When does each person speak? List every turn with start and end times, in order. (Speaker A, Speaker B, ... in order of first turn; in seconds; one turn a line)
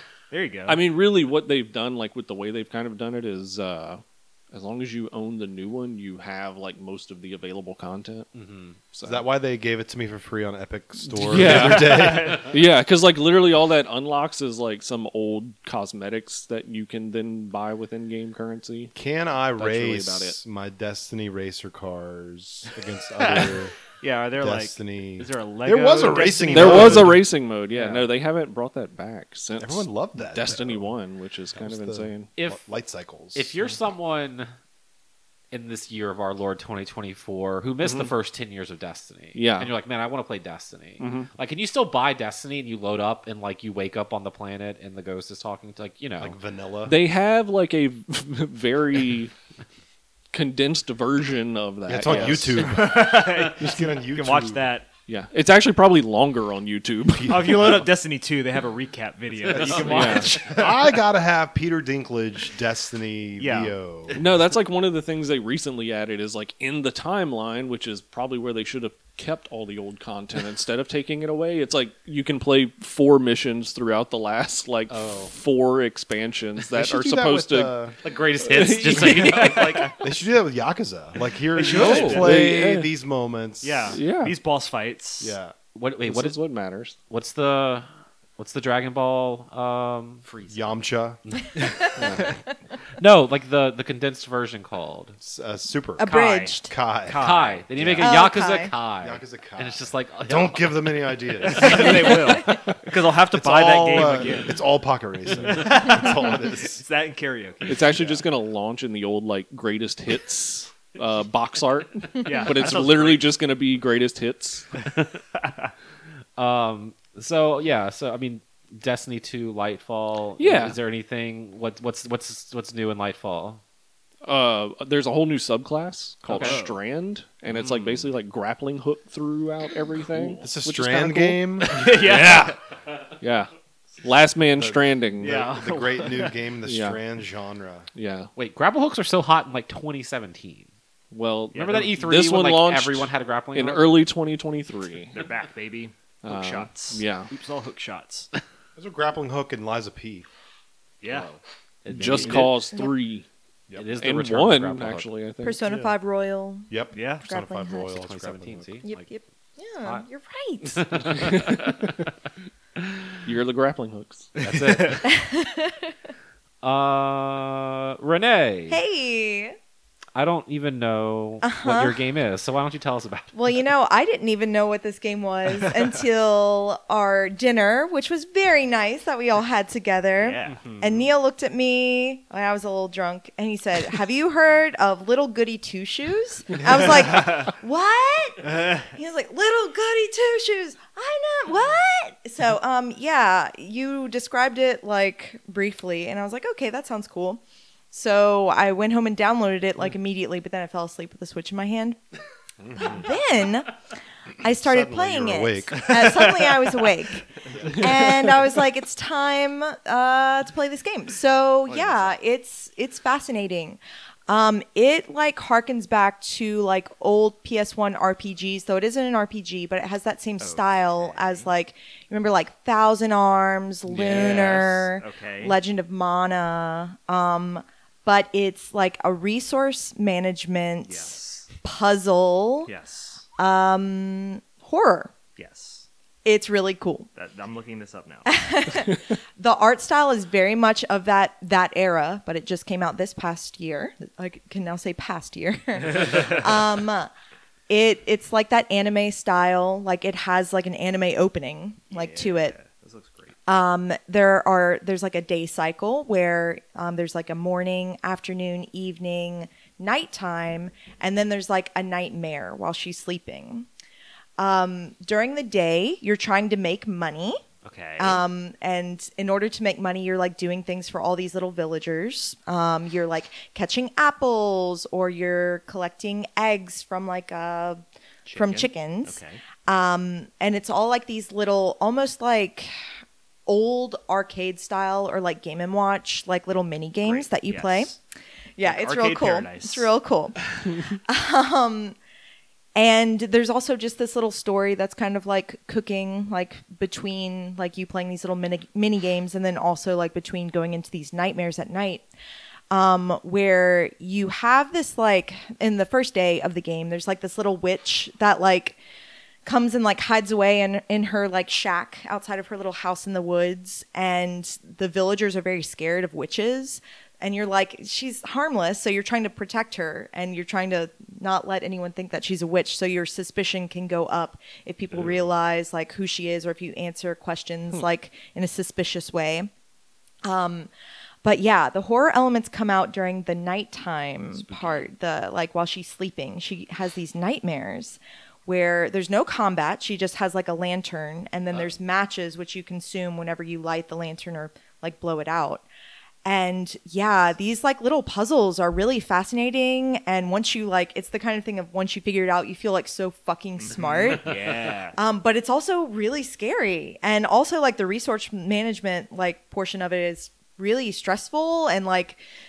Speaker A: 0.3-0.8
Speaker B: 0.7-8.3
Speaker C: 8.3-8.8
Speaker B: 8.9-9.2
Speaker D: 9.0-12.5
Speaker B: 11.1-18.9
Speaker A: 11.5-12.5
Speaker D: 18.9-23.7
Speaker B: 19.6-20.4
Speaker A: 23.2-27.2
Speaker D: 24.4-27.2
Speaker B: 26.1-32.3
Speaker C: 27.7-28.1
Speaker D: 29.6-30.9
Speaker D: 31.6-33.5
Speaker C: 33.3-34.5
Speaker C: 35.5-46.4
Speaker B: 37.8-38.1
Speaker B: 39.3-39.7
Speaker B: 41.0-41.3
Speaker D: 46.2-46.9
Speaker B: 46.9-49.3
Speaker B: 50.3-52.7
Speaker D: 51.9-54.6
Speaker A: 52.1-54.9
Speaker B: 55.0-57.8
Speaker D: 57.1-57.8
Speaker A: 57.3-60.9
Speaker C: 59.4-60.4
Speaker D: 59.6-64.2
Speaker B: 59.8-60.4
Speaker A: 63.4-63.7
Speaker B: 64.1-77.8
Speaker C: 74.9-75.3
Speaker D: 76.7-77.9
Speaker C: 78.0-79.9
Speaker B: 78.4-79.8
Speaker A: 78.9-80.0
Speaker D: 80.0-84.0
Speaker A: 81.5-82.4
Speaker C: 81.6-82.3
Speaker B: 81.8-82.9
Speaker A: 83.6-85.4
Speaker B: 83.9-84.3
Speaker D: 85.2-85.5
Speaker C: 85.7-86.4
Speaker B: 86.1-87.0
Speaker C: 87.1-87.9
Speaker C: 88.4-90.2
Speaker A: 90.2-90.8
Speaker D: 90.5-91.2
Speaker C: 91.6-92.0
Speaker B: 92.0-92.3
Speaker C: 93.0-95.2
Speaker D: 95.2-98.1
Speaker E: 96.0-96.7
Speaker A: 96.1-97.6
Speaker C: 97.1-100.9
Speaker E: 98.0-98.7
Speaker D: 99.0-102.5
Speaker A: 101.4-104.6
Speaker C: 101.7-102.1
Speaker D: 103.3-106.8
Speaker A: 105.4-108.2
Speaker B: 107.7-114.7
Speaker A: 112.2-113.3
Speaker A: 115.4-115.7
Speaker C: 116.4-123.6
Speaker B: 120.4-120.8
Speaker B: 124.2-132.5
Speaker C: 126.3-126.6
Speaker A: 126.4-126.8
Speaker D: 130.4-132.5
Speaker A: 131.6-132.6
Speaker B: 133.2-133.5
Speaker B: 134.0-135.6
Speaker D: 134.6-137.9
Speaker A: 135.2-136.4
Speaker B: 136.6-137.0
Speaker B: 137.9-138.3
Speaker C: 138.3-140.7
Speaker B: 141.1-145.2
Speaker A: 141.5-141.9
Speaker C: 141.5-143.9
Speaker A: 145.1-148.3
Speaker B: 146.2-147.3
Speaker D: 148.8-150.2
Speaker A: 151.0-151.4
Speaker C: 151.8-152.6
Speaker B: 151.9-153.3
Speaker D: 152.0-152.5
Speaker C: 153.8-155.1
Speaker B: 154.0-155.6
Speaker E: 155.4-157.9
Speaker D: 155.6-155.9
Speaker D: 156.7-158.7
Speaker A: 156.9-157.2
Speaker C: 157.8-159.1
Speaker E: 158.8-160.9
Speaker C: 160.6-162.0
Speaker B: 163.2-164.3
Speaker C: 164.4-165.1
Speaker A: 164.4-165.0
Speaker E: 165.0-165.9
Speaker C: 166.6-168.8
Speaker E: 168.7-169.6
Speaker C: 170.1-173.3
Speaker E: 171.4-172.0
Speaker E: 173.3-202.0
Speaker A: 180.2-180.6
Speaker C: 180.5-181.0
Speaker A: 187.1-187.5
Speaker A: 188.4-188.9
Speaker E: 202.7-203.7
Speaker E: 204.4-232.7
Speaker D: 204.5-206.3
Speaker A: 211.7-212.1
Speaker A: 220.4-221.5
Speaker A: 224.0-225.6
Speaker C: 224.1-224.6
Speaker B: 224.1-224.6
Speaker A: 230.8-231.5
Speaker A: 232.7-233.2
Speaker E: 233.4-235.1
Speaker A: 235.3-235.9
Speaker E: 236.2-237.1
Speaker A: 237.1-238.3
Speaker E: 238.2-247.1
Speaker E: 247.7-252.5
Speaker A: 251.9-253.3
Speaker E: 253.5-263.7
Speaker E: 264.4-267.4
Speaker A: 267.6-268.2
Speaker E: 268.0-277.8
Speaker A: 278.2-279.4
Speaker E: 278.3-282.7
Speaker E: 283.4-287.9
Speaker A: 287.0-288.0
Speaker E: 288.6-290.4
Speaker A: 288.6-289.9
Speaker E: 291.0-291.9
Speaker E: 292.8-302.1
Speaker E: 302.7-308.8
Speaker E: 309.4-329.5
Speaker E: 330.2-330.7
Speaker E: 331.2-345.6
Speaker E: 346.2-362.2
Speaker A: 353.6-355.0